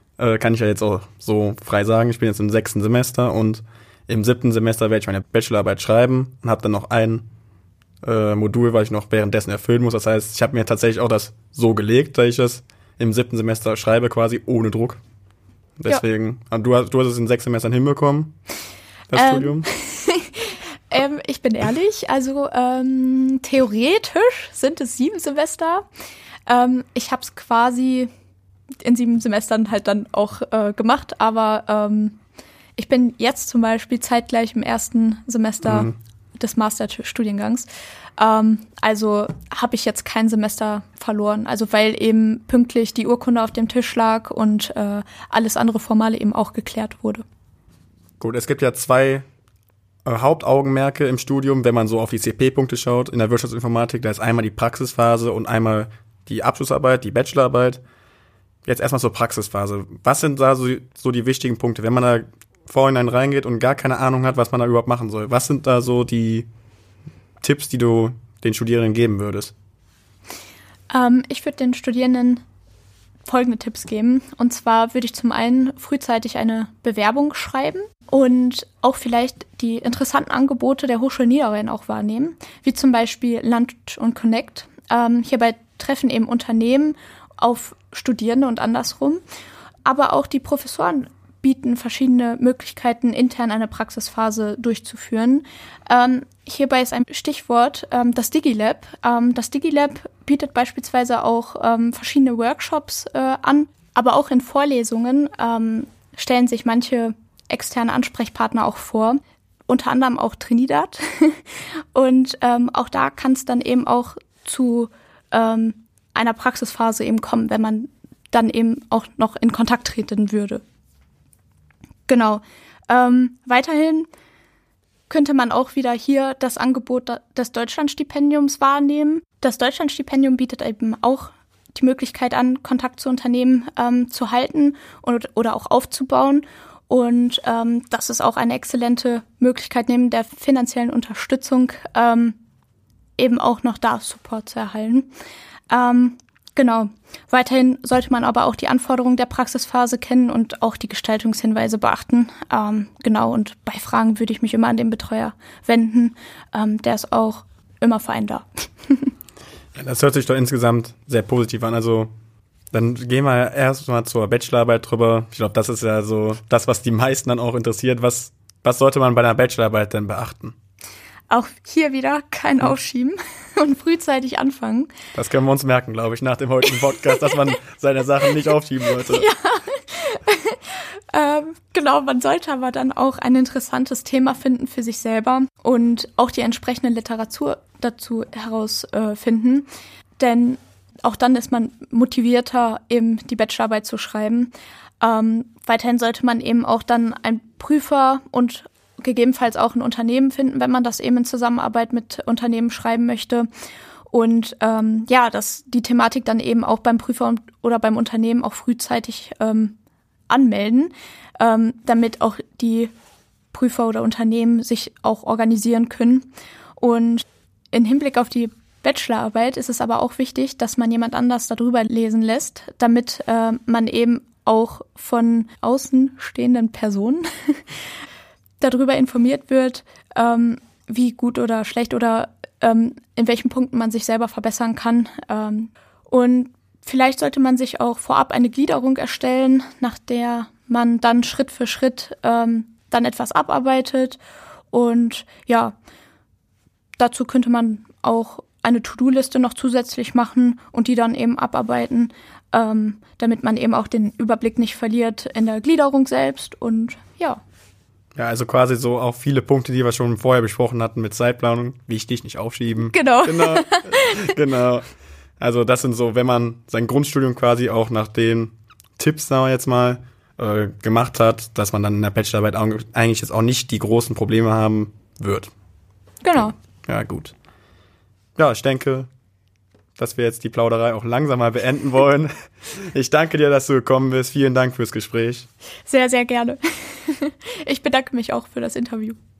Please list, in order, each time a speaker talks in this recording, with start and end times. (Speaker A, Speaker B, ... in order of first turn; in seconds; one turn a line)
Speaker A: 0.2-7.2
Speaker A: 8.0-15.0
Speaker A: 15.8-18.3
Speaker A: 19.1-19.6
Speaker B: 19.1-25.9
Speaker B: 26.5-28.1
Speaker B: 28.8-32.2
Speaker B: 32.8-47.2
Speaker A: 48.2-49.2
Speaker A: 50.0-57.8
Speaker A: 58.6-66.5
Speaker A: 67.4-69.5
Speaker B: 70.9-72.4
Speaker B: 73.2-89.2
Speaker B: 89.8-120.6
Speaker B: 122.1-124.1
Speaker B: 125.1-142.4
Speaker B: 143.2-145.1
Speaker B: 145.7-159.1
Speaker A: 159.8-162.1
Speaker A: 162.7-170.5
Speaker B: 171.3-174.9
Speaker A: 175.1-179.3
Speaker B: 179.0-203.5
Speaker B: 204.1-209.8
Speaker B: 210.3-212.9
Speaker B: 213.5-227.6
Speaker B: 228.6-244.2
Speaker B: 244.7-245.8
Speaker B: 247.0-257.4
Speaker A: 258.1-264.9
Speaker B: 262.8-264.2
Speaker A: 265.4-275.5
Speaker B: 276.2-276.5
Speaker A: 276.9-277.3
Speaker A: 278.4-279.1
Speaker A: 280.0-285.5
Speaker B: 285.9-289.2